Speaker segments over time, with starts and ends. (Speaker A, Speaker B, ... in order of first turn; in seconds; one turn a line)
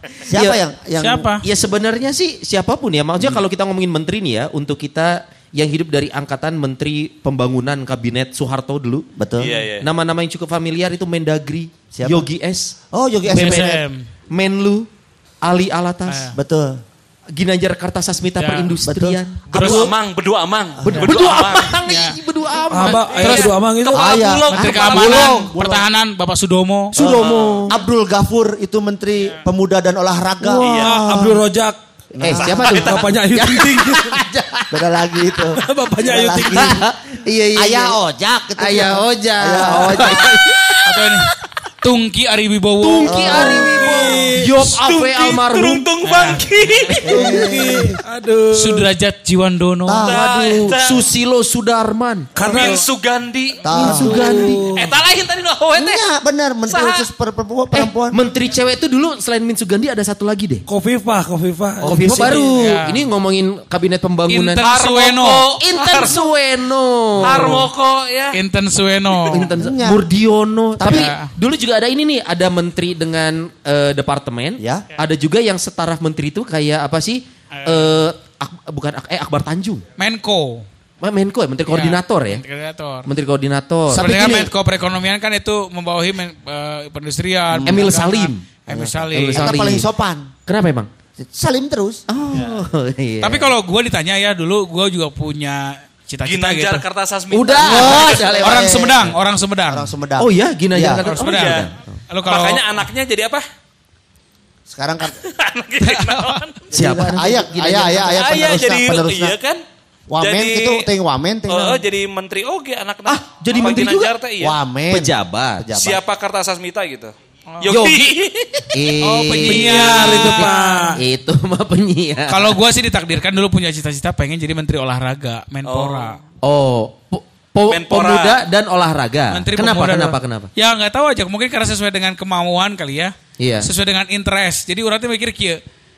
Speaker A: 0.2-1.3
Speaker B: 0.3-0.6
Speaker C: 1.0-1.4
Speaker B: 1.4-9.1
Speaker A: 9.2-9.5
Speaker D: 9.4-9.9
Speaker B: 9.8-12.7
Speaker A: 11.9-12.3
Speaker A: 12.9-13.8
Speaker B: 13.3-13.8
Speaker C: 13.3-14.1
Speaker B: 14.3-14.9
Speaker B: 15.4-16.3
Speaker C: 16.1-16.4
Speaker A: 16.4-16.8
Speaker B: 17.3-19.9
Speaker C: 18.4-18.8
Speaker A: 18.9-19.9
Speaker D: 19.5-21.8
Speaker C: 19.5-19.9
Speaker A: 20.8-21.1
Speaker B: 20.8-23.3
Speaker C: 21.9-22.2
Speaker E: 22.7-24.3
Speaker C: 22.9-23.6
Speaker D: 23.2-25.4
Speaker A: 23.9-25.9
Speaker C: 24.5-27.0
Speaker A: 27.0-31.4
Speaker D: 27.0-27.7
Speaker B: 27.0-27.7
Speaker E: 30.5-31.8
Speaker D: 30.6-31.0
Speaker A: 32.1-33.1
Speaker B: 32.2-34.9
Speaker E: 32.5-34.2
Speaker A: 34.7-36.8
Speaker E: 35.6-36.8
Speaker B: 36.5-38.0
Speaker A: 37.5-40.4
Speaker B: 38.6-41.2
Speaker C: 40.9-41.3
Speaker C: 41.8-43.3
Speaker B: 42.8-45.9
Speaker A: 43.0-44.4
Speaker E: 43.1-44.5
Speaker D: 44.6-47.3
Speaker C: 46.0-46.4
Speaker A: 47.0-48.0
Speaker E: 47.0-48.9
Speaker C: 48.5-50.1
Speaker A: 49.9-50.6
Speaker D: 50.0-51.1
Speaker B: 50.1-52.3
Speaker E: 52.4-52.8
Speaker D: 52.4-53.7
Speaker A: 53.6-54.3
Speaker B: 53.8-54.7
Speaker E: 53.8-54.9
Speaker D: 54.7-56.0
Speaker A: 55.8-58.2
Speaker D: 56.7-57.1
Speaker B: 57.7-60.6
Speaker E: 60.7-62.4
Speaker A: 61.8-62.5
Speaker B: 61.8-64.6
Speaker C: 62.5-63.0
Speaker C: 64.3-65.4
Speaker D: 64.6-66.3
Speaker B: 65.6-67.7
Speaker D: 67.2-68.4
Speaker C: 68.3-69.5
Speaker B: 69.3-79.8
Speaker A: 69.5-70.0
Speaker A: 70.8-71.1
Speaker C: 70.8-71.3
Speaker A: 74.6-74.8
Speaker C: 77.5-77.9
Speaker C: 80.0-80.7
Speaker B: 81.0-82.4
Speaker C: 81.7-83.1
Speaker B: 83.0-84.2
Speaker A: 83.9-84.5
Speaker C: 83.9-89.8
Speaker B: 87.5-88.5
Speaker A: 88.7-90.3
Speaker B: 89.1-89.9
Speaker B: 90.5-90.9
Speaker A: 91.2-92.0
Speaker B: 92.1-93.5
Speaker C: 93.2-96.8
Speaker D: 96.2-98.3
Speaker B: 97.3-98.9
Speaker A: 97.6-99.2
Speaker C: 98.4-99.9
Speaker A: 99.7-101.1
Speaker B: 100.2-101.9
Speaker C: 101.0-102.6
Speaker D: 101.2-101.7
Speaker D: 102.2-103.4
Speaker A: 104.7-105.2
Speaker D: 105.1-106.6
Speaker C: 105.8-106.5
Speaker B: 106.7-108.4
Speaker A: 106.7-109.3
Speaker D: 108.2-109.6
Speaker A: 110.1-111.8
Speaker D: 110.2-110.9
Speaker D: 111.5-114.6
Speaker B: 113.1-114.1
Speaker A: 114.4-116.0
Speaker B: 114.9-115.7
Speaker D: 115.8-118.8
Speaker B: 117.7-118.1
Speaker B: 118.7-122.6
Speaker C: 119.0-121.0
Speaker E: 119.5-121.0
Speaker C: 122.3-126.2
Speaker D: 125.7-126.2
Speaker B: 126.4-130.5
Speaker D: 127.7-128.4
Speaker C: 129.3-135.6
Speaker B: 133.4-133.7